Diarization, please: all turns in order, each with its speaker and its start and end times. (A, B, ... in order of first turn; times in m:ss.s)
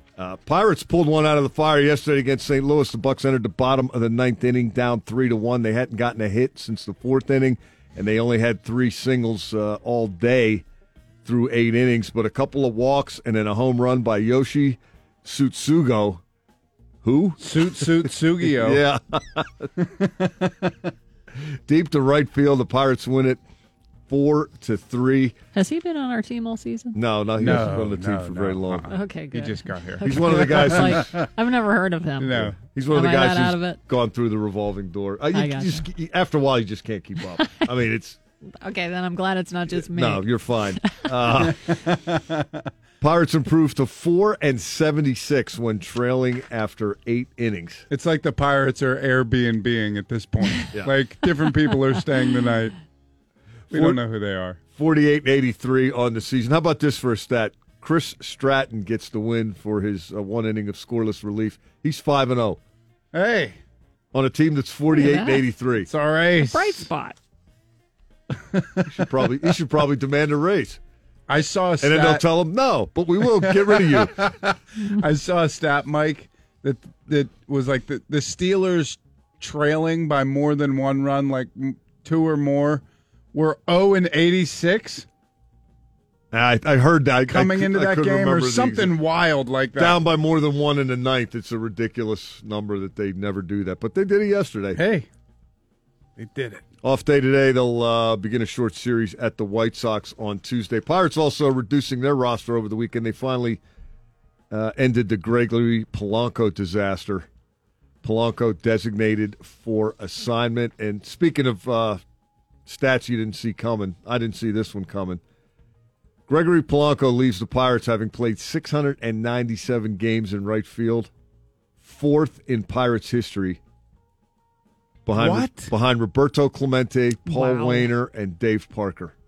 0:00.2-0:10.6 A
0:11.2-0:16.2 A
0:17.0-0:19.7 A
0:17.4-0:18.8 B
0:20.0-0:20.9 B
0:21.7-0:23.4 A
0:24.1-0:25.3 A
0:25.5-0:27.0 C
0:26.9-0:28.8 A
0:27.4-0:31.3 B
0:28.9-0:33.8 C
0:30.0-0:31.2 A
0:32.2-0:32.5 B
0:32.3-0:38.2 A
0:35.3-0:35.8 C
0:38.6-0:40.2 C
0:39.7-0:41.8 A
0:41.4-0:42.7 B
0:43.0-0:47.8 A
0:47.9-0:52.8 B
0:53.7-0:54.6 B
0:53.7-0:54.0 A
0:54.7-1:02.6 A
1:03.1-1:03.6 B
1:04.1-1:05.9 A
1:04.9-1:05.4 C
1:05.9-1:06.9 B
1:06.5-1:07.2 C
1:08.5-1:08.9 B
1:08.9-1:10.8 A
1:11.3-1:12.2 B
1:11.8-1:14.2 A
1:13.3-1:22.8 B
1:23.3-1:25.1 B
1:26.3-1:28.9 A
1:27.3-1:30.0 B
1:29.8-1:34.8 A
1:34.8-1:35.1 B
1:36.2-1:36.6 B
1:36.8-1:43.6 A
1:44.5-1:47.3 A
1:48.0-1:52.0 A
1:52.6-1:55.2 A
1:56.3-2:01.1 A
2:01.8-2:03.6 A
2:05.0-2:09.1 A
2:05.2-2:05.7 B
2:07.3-2:07.9 C